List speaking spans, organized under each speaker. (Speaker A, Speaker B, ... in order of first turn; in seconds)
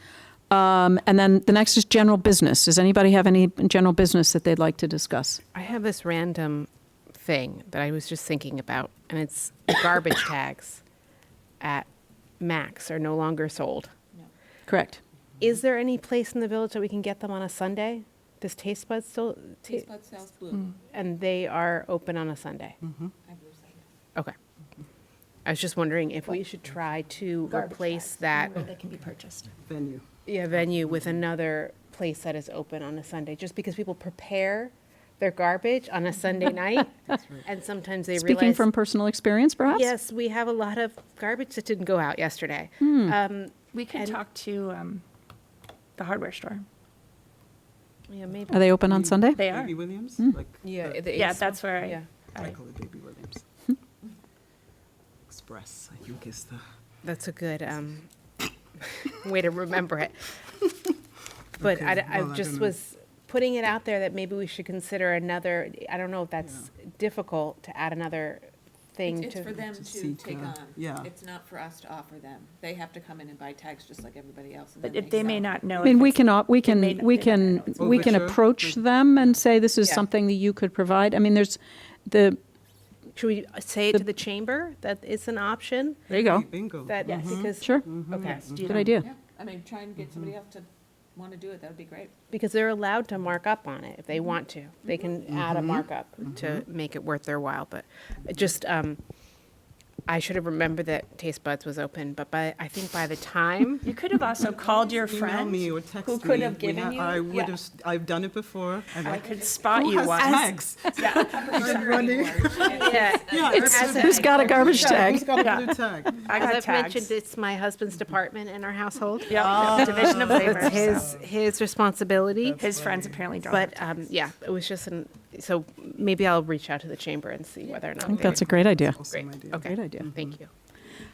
Speaker A: 0.5-5.4, 14.7-15.0, 38.2-39.9, 42.8-43.2, 48.5-49.4, 75.8-82.4, 86.1-86.5, 87.6-87.9, 88.6-89.1, 113.5-115.4, 128.0-129.0, 129.6-130.1
Speaker B: 5.5-10.8, 11.6-11.9, 12.4-13.9, 15.4-19.9, 20.9-22.8, 25.4-28.7, 30.3-38.7, 39.7-44.2, 48.1-48.6, 50.6-52.1, 57.0-58.1, 58.8-60.3, 61.6-69.6, 83.2-86.1, 86.9-88.6, 92.3-99.0, 100.1-103.9, 112.5-115.2, 116.3-122.6, 123.5-128.4, 129.1-130.5
Speaker C: 19.6-20.7, 23.2-23.8, 69.1-76.0, 88.9-92.1, 111.0-113.4
Speaker D: 22.8-23.1, 29.7-30.1, 37.1-37.5, 48.8-51.1, 52.4-53.5, 55.3-56.6, 61.6-62.8, 69.8-71.1, 77.8-78.8, 86.2-88.7, 95.4-95.8, 96.3-96.6, 104.8-116.3, 119.3-121.2, 122.4-123.2, 128.0-130.3
Speaker E: 27.5-29.5, 43.7-45.0, 46.0-46.6, 49.4-49.7, 51.1-52.6, 74.8-77.8, 88.2-89.0, 103.8-107.5, 109.0-112.5, 114.8-117.1, 119.2-121.2, 122.5-123.9